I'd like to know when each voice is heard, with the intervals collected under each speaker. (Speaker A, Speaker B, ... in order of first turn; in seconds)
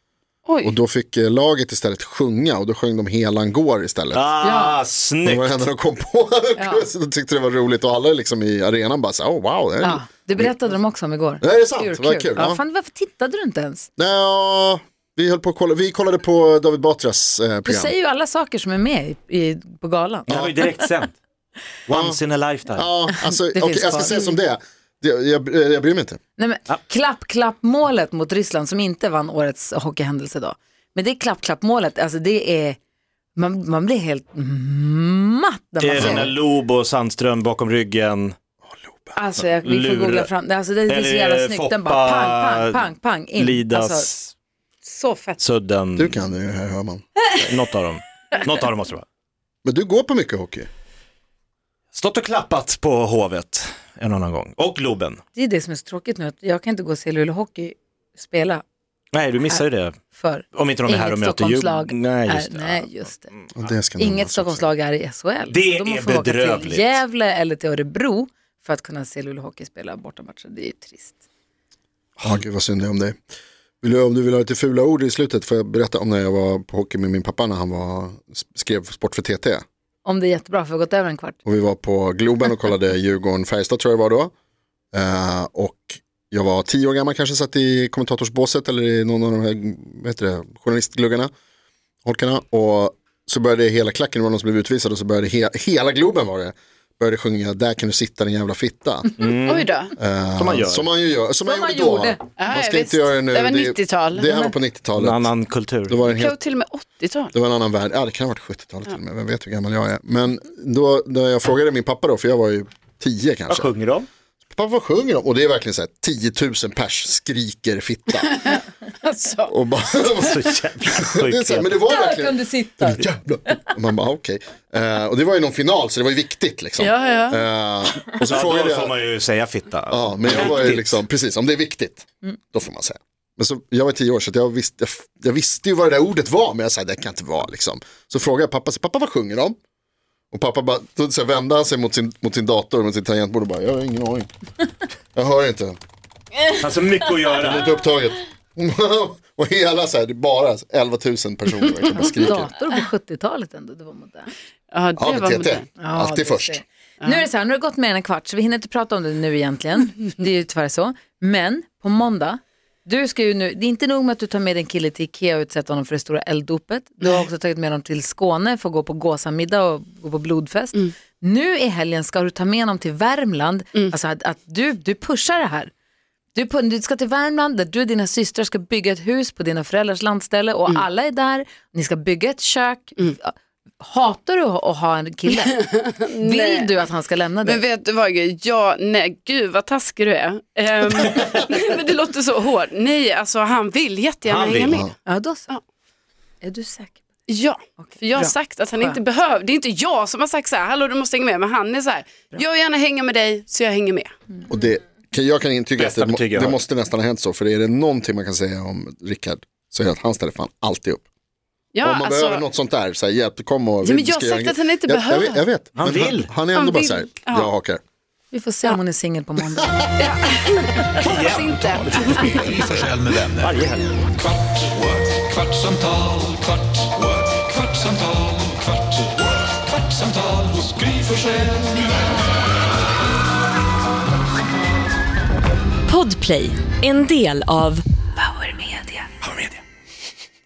Speaker A: 0.5-0.8, 99.5-99.9, 102.4-104.3, 106.0-107.3, 118.2-119.5, 126.8-127.4, 154.7-155.7, 185.6-186.8, 187.4-194.9, 197.3-204.1, 211.7-212.4, 213.8-215.5, 216.4-217.5, 220.0-222.7
Speaker B: 0.6-4.2, 5.2-10.7, 11.4-12.6, 14.0-17.9, 21.9-22.2, 22.8-26.2, 36.0-36.3, 38.7-39.1, 46.0-47.2, 49.6-50.7, 63.5-64.7, 72.2-73.2, 73.8-79.6, 81.5-84.3, 84.9-91.3, 92.0-99.2, 100.0-105.3, 105.9-106.4, 107.3-113.7, 114.5-118.4, 119.5-128.9, 129.9-139.6, 140.3-144.3, 145.1-145.8, 147.3-152.5, 155.0-156.6, 204.5-211.0, 211.8-217.8
Speaker C: 4.1-5.6, 20.3-21.1, 21.9-22.9, 35.8-38.4, 39.4-40.3, 40.9-44.3, 45.4-46.2, 47.4-49.0, 51.9-55.2, 59.1-60.0, 60.5-63.5, 65.5-67.0, 99.2-99.7, 100.3-100.9, 105.0-106.0, 113.5-114.1, 120.1-121.8, 128.2-131.0, 146.5-147.7, 194.2-194.8, 205.8-206.6, 215.7-216.4, 221.0-222.2, 223.4-223.8, 239.2-239.6
Speaker D: 4.4-4.8, 6.6-6.9, 9.8-13.9, 17.6-20.9, 23.1-24.2, 26.4-32.8, 33.3-36.3, 39.1-44.1, 44.8-45.4, 55.3-58.6, 59.5-63.3, 64.0-71.2, 80.0-81.4, 101.4-102.2, 121.8-123.6, 151.9-154.3, 155.8-175.7, 176.3-187.6, 195.1-195.5, 196.4-197.0, 197.8-199.0, 218.3-219.9
Speaker E: 222.1-223.6, 224.7-228.6, 230.2-231.2
Speaker F: 235.9-239.0